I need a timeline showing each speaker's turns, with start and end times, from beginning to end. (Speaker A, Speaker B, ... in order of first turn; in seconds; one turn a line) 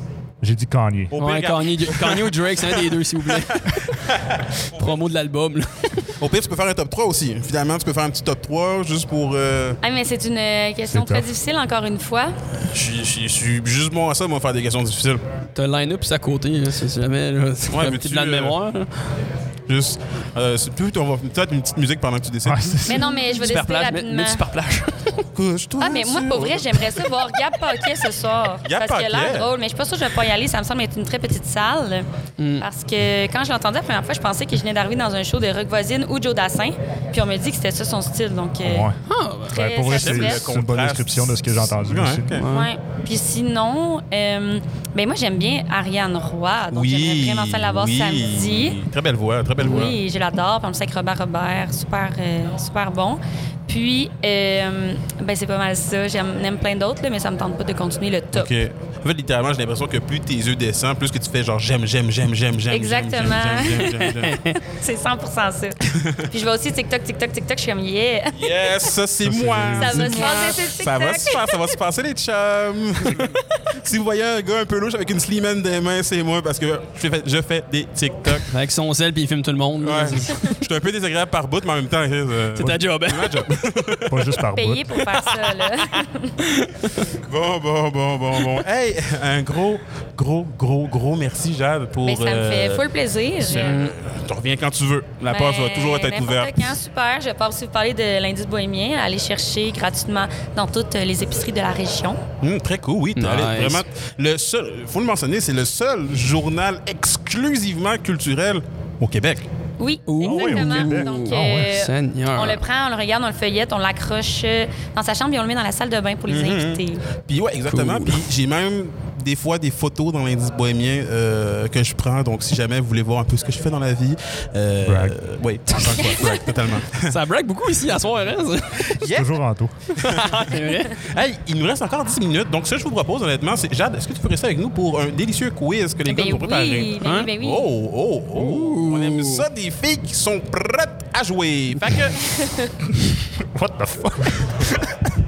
Speaker A: 0.4-1.1
Speaker B: 1.1-4.8
Speaker C: 1.2-4.0
Speaker C: 4.7-6.1
Speaker B: 6.2-9.8
Speaker D: 9.8-12.3
Speaker A: 10.9-11.3
Speaker B: 12.7-15.2
Speaker C: 15.5-18.9
Speaker B: 17.7-18.6
Speaker B: 19.7-23.0
Speaker A: 22.4-23.0
Speaker D: 22.8-24.4
Speaker C: 22.9-25.2
Speaker B: 25.3-27.1
Speaker D: 25.8-32.0
Speaker B: 28.6-29.5
Speaker C: 32.4-32.6
Speaker D: 32.6-38.9
Speaker A: 38.6-38.9
Speaker C: 39.0-39.6
Speaker D: 39.5-40.4
Speaker A: 39.5-42.4
Speaker B: 39.9-42.4
Speaker C: 42.4-42.7
Speaker D: 42.5-48.8
Speaker B: 46.7-50.0
Speaker D: 49.6-58.5
Speaker B: 58.3-64.4
Speaker D: 62.7-65.8
Speaker B: 65.9-66.3
Speaker D: 66.3-68.5
Speaker B: 68.3-78.5
Speaker A: 69.2-70.2
Speaker D: 69.8-71.4
Speaker C: 78.5-80.5
Speaker B: 79.8-84.2
Speaker C: 82.6-84.0
Speaker A: 84.1-85.0
Speaker D: 84.5-86.4
Speaker C: 85.1-87.1
Speaker B: 87.1-92.8
Speaker D: 92.0-93.7
Speaker B: 93.4-96.7
Speaker C: 93.5-93.9
Speaker D: 95.3-102.2
Speaker B: 102.4-109.4
Speaker C: 103.2-103.8
Speaker D: 109.8-117.0
Speaker C: 110.1-112.6
Speaker A: 110.2-111.7
Speaker B: 116.3-127.1
Speaker C: 117.7-118.2
Speaker A: 124.8-125.2
Speaker D: 126.0-126.3
Speaker C: 127.0-128.9
Speaker B: 129.0-129.4
Speaker A: 129.0-129.7
Speaker C: 129.9-131.0
Speaker B: 130.0-130.5
Speaker B: 131.0-142.3
Speaker D: 136.1-137.7
Speaker C: 137.0-137.3
Speaker C: 138.3-139.4
Speaker D: 142.3-142.7
Speaker A: 143.4-145.1